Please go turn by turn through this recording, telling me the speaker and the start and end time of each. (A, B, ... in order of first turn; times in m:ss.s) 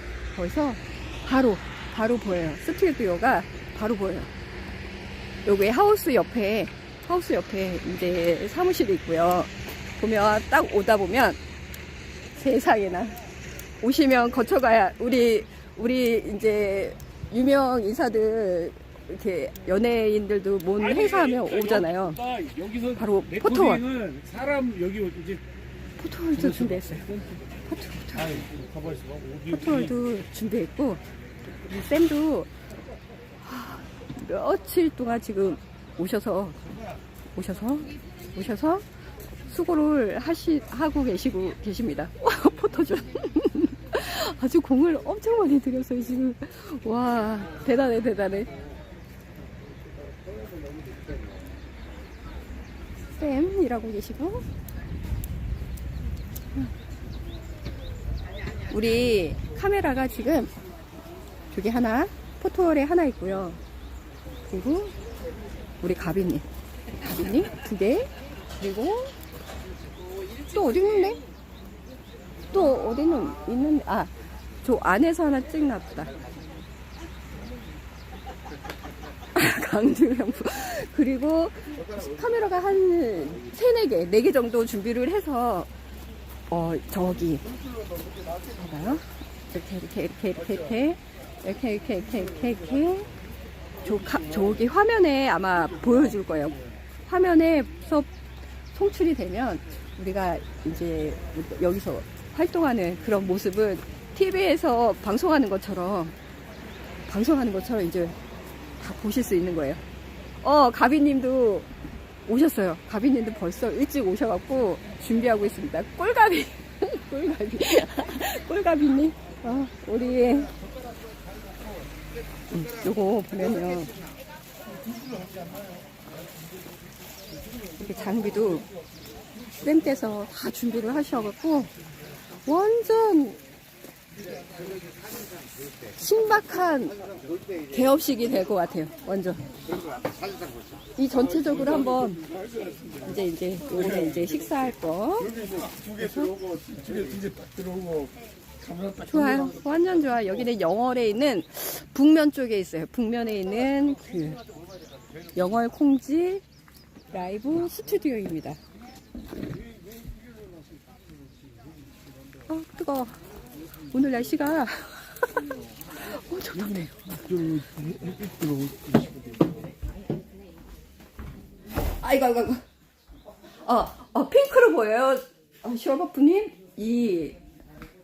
0:00.3-0:04.3 A
0:05.4-0:11.4 A
0:12.4-0:13.2 A
0:13.8-0:22.3 A
0:21.3-0:25.4 B
0:22.9-0:23.9 A
0:26.0-0:28.4 A
0:28.5-0:29.5 B
0:29.5-0:31.0 A
0:31.6-0:32.5 A
0:33.4-0:36.6 A
0:37.3-0:38.8 A
0:39.5-0:48.5 A
0:53.1-0:54.4 A
0:58.7-1:00.5 A
1:01.5-1:03.6 A
1:04.5-1:04.9 A
1:05.8-1:06.4 A
1:07.0-1:09.1 A
1:10.4-1:11.2 A
1:12.5-1:14.1 A
1:14.6-1:16.1 A
1:19.3-1:25.7 A
1:26.5-1:27.4 A
1:28.5-1:33.1 A
1:33.8-1:38.1 A
1:38.7-1:46.2 A
1:47.1-1:48.2 A
1:48.8-1:49.8 A
1:50.4-1:51.7 A
1:52.2-2:00.5 A
2:02.5-2:03.9 A
2:07.8-2:08.7 A
2:09.6-2:11.7 A
2:12.4-2:13.4 A
2:16.0-2:17.0 A
2:17.7-2:19.4 A
2:21.0-2:22.2 A
2:23.0-2:26.4 A
2:26.6-2:28.0 B
2:29.0-2:34.4 A
2:35.3-2:36.4 A
2:37.1-2:38.6 A
2:42.5-2:43.1 A
2:43.9-2:47.6 A
2:47.8-2:49.0 B
2:52.0-2:52.6 A
2:53.6-2:57.4 A